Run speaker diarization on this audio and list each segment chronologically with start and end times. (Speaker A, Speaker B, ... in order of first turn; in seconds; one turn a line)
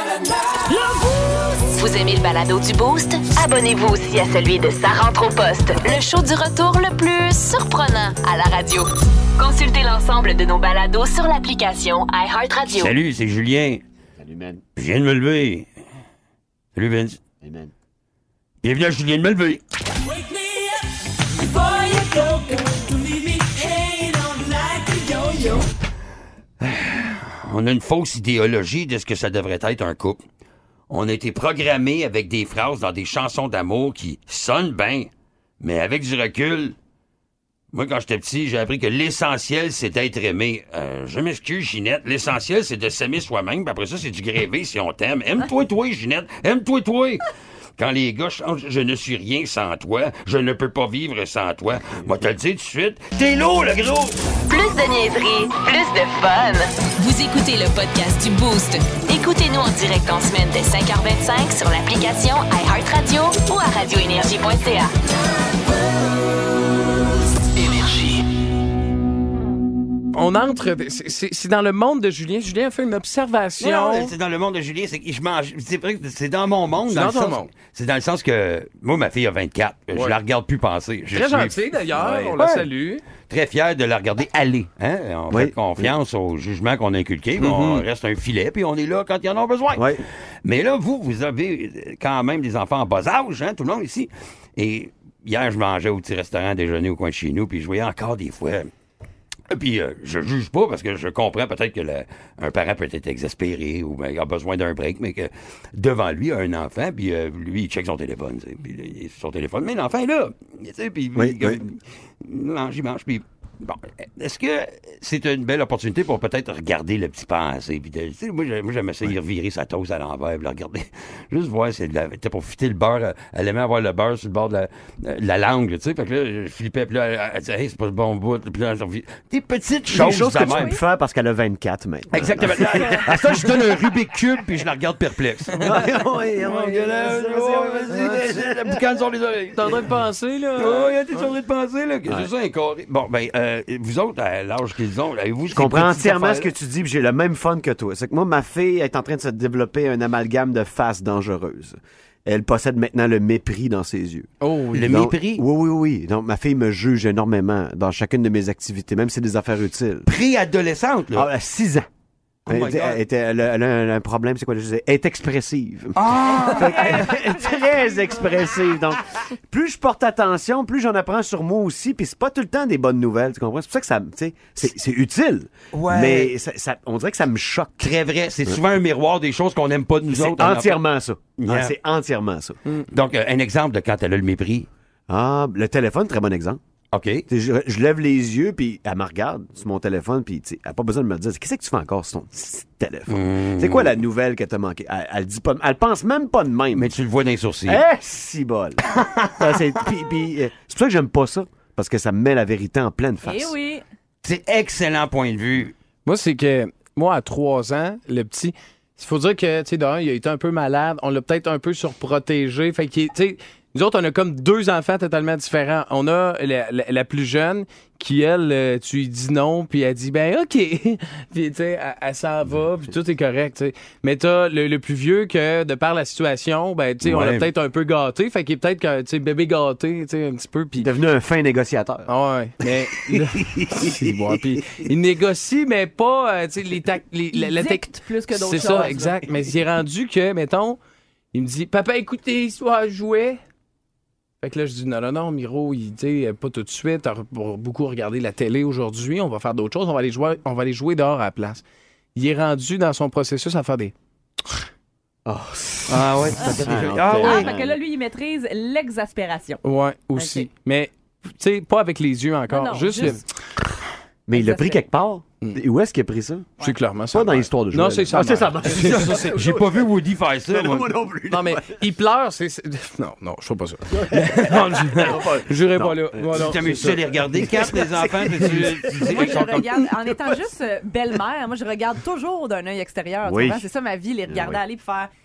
Speaker A: 1.6-12.9
Speaker B: 12.6-13.8
Speaker C: 14.2-14.6
Speaker B: 14.8-15.7
Speaker B: 16.8-17.2
Speaker C: 17.4-17.7
Speaker B: 18.6-19.6
Speaker A: 21.6-25.6
Speaker B: 26.6-30.2
Speaker B: 30.9-36.8
Speaker B: 37.7-47.2
Speaker B: 47.8-54.2
Speaker A: 54.5-64.9
Speaker D: 70.1-74.1
Speaker B: 73.6-82.7
Speaker D: 76.8-77.5
Speaker D: 79.9-80.2
Speaker D: 81.1-83.0
Speaker B: 83.2-89.9
Speaker C: 85.3-85.9
Speaker D: 87.4-87.9
Speaker C: 89.8-90.0
Speaker B: 90.4-98.7
Speaker B: 99.5-130.8
Speaker C: 111.2-111.6
Speaker C: 129.9-133.9
Speaker E: 130.4-130.8
Speaker B: 132.1-139.8
Speaker E: 132.7-133.1
Speaker C: 135.6-138.8
Speaker D: 139.6-141.3
Speaker B: 140.6-146.5
Speaker C: 145.5-154.3
Speaker D: 154.4-155.0
Speaker B: 154.7-155.5
Speaker C: 154.8-160.1
Speaker B: 160.1-161.3
Speaker C: 161.1-161.9
Speaker C: 162.5-177.9
Speaker B: 162.5-163.0
Speaker B: 166.0-167.2
Speaker E: 166.3-168.7
Speaker B: 175.7-176.3
Speaker B: 177.8-180.8
Speaker C: 180.1-182.6
Speaker B: 181.4-181.7
Speaker B: 182.9-184.7
Speaker C: 185.1-186.6
Speaker B: 186.9-187.2
Speaker C: 187.3-196.9
Speaker B: 193.1-194.0
Speaker B: 196.7-197.8
Speaker C: 197.7-203.5
Speaker B: 199.0-199.5
Speaker E: 203.2-203.8
Speaker B: 204.2-205.7
Speaker D: 206.1-230.9
Speaker B: 227.0-227.5
Speaker C: 230.8-234.0
Speaker D: 232.1-240.8
Speaker E: 237.3-239.2
Speaker C: 238.6-238.9
Speaker D: 241.3-243.4
Speaker D: 244.4-251.6
Speaker D: 252.2-253.9
Speaker C: 255.3-257.8
Speaker B: 255.9-257.5
Speaker E: 256.3-259.6
Speaker D: 259.6-263.2
Speaker E: 260.2-260.5
Speaker E: 262.5-263.2
Speaker C: 264.3-266.5
Speaker E: 264.3-264.9
Speaker D: 266.6-269.4
Speaker C: 267.1-269.9
Speaker B: 268.7-270.9
Speaker C: 270.5-271.8
Speaker D: 271.3-277.5
Speaker C: 273.9-276.5
Speaker B: 276.3-279.9
Speaker C: 277.4-279.2
Speaker E: 279.0-285.1
Speaker C: 283.2-283.6
Speaker C: 284.3-284.6